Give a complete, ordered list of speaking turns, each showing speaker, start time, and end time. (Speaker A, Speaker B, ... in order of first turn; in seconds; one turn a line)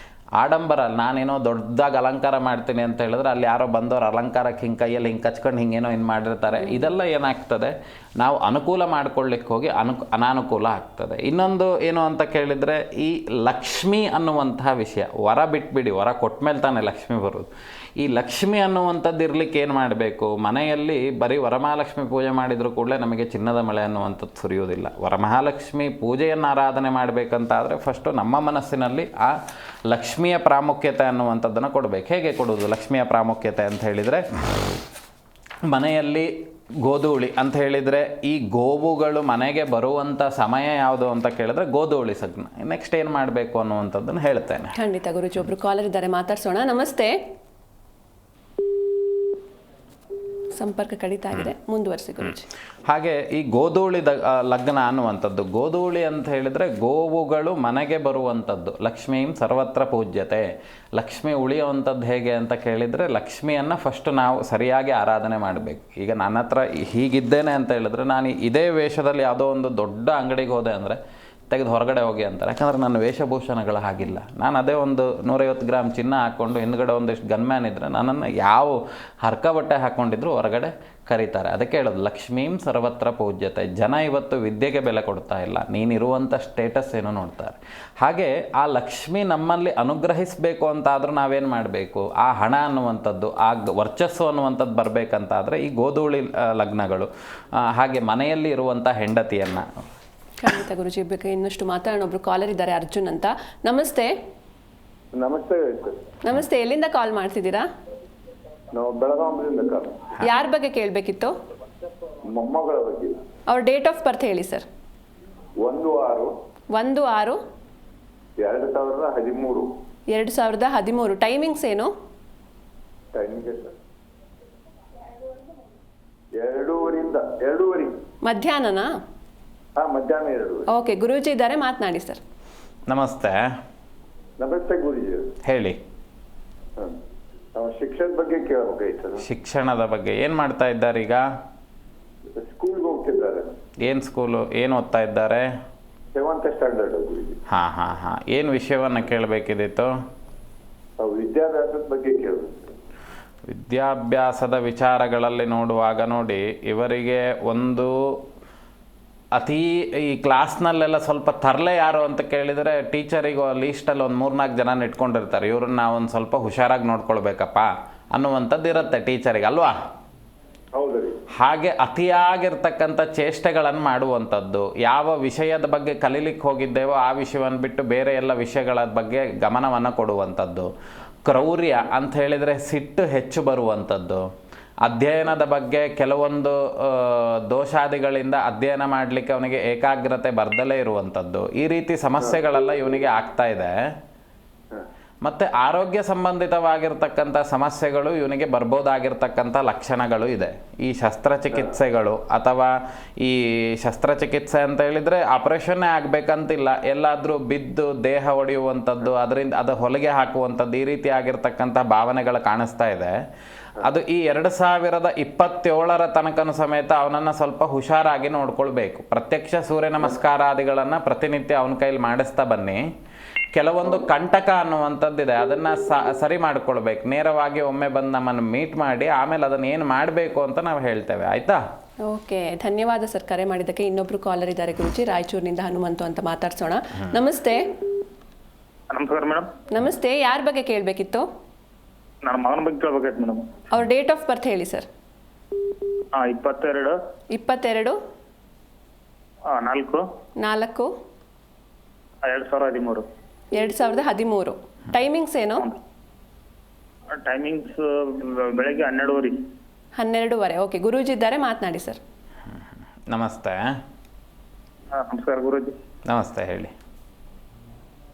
Speaker A: 0.4-17.5
Speaker A: 18.0-29.4
Speaker A: 29.9-34.2
Speaker A: 35.7-36.3
Speaker A: 36.8-44.7
Speaker B: 44.8-47.1
Speaker B: 50.5-52.5
Speaker A: 52.9-71.0
Speaker A: 71.5-97.1
Speaker A: 97.7-99.7
Speaker B: 100.4-104.1
Speaker C: 105.1-106.0
Speaker B: 106.2-107.7
Speaker C: 108.7-110.0
Speaker B: 110.2-111.3
Speaker C: 112.3-113.2
Speaker B: 113.5-114.7
Speaker C: 115.6-116.3
Speaker B: 116.7-117.4
Speaker C: 118.4-119.7
Speaker B: 120.1-121.9
Speaker C: 123.1-123.7
Speaker C: 126.3-128.0
Speaker B: 128.2-128.9
Speaker C: 129.8-130.7
Speaker B: 130.7-132.2
Speaker A: 132.9-133.4
Speaker C: 134.4-135.3
Speaker A: 135.4-135.8
Speaker C: 137.6-139.2
Speaker A: 139.2-141.2
Speaker C: 142.3-143.4
Speaker A: 143.8-145.5
Speaker C: 146.1-147.4
Speaker A: 147.5-149.9
Speaker C: 151.0-152.7
Speaker A: 153.5-158.2
Speaker A: 159.3-169.7
Speaker C: 170.7-171.2
Speaker A: 171.4-180.7
Speaker A: 181.2-184.2
Speaker A: 184.8-193.7
Speaker A: 195.2-213.1
Speaker A: 213.8-222.8
Speaker A: 223.5-231.6
Speaker B: 232.1-237.6
Speaker D: 238.9-239.5
Speaker B: 239.7-241.2
Speaker D: 242.2-243.5
Speaker B: 243.7-244.9
Speaker D: 246.1-246.9
Speaker B: 247.3-248.0
Speaker D: 249.5-250.0
Speaker B: 250.4-250.9
Speaker D: 252.2-253.0
Speaker B: 253.5-255.7
Speaker D: 257.2-259.4
Speaker B: 260.0-262.0
Speaker A: 263.1-263.6
Speaker D: 264.9-265.7
Speaker A: 266.1-266.7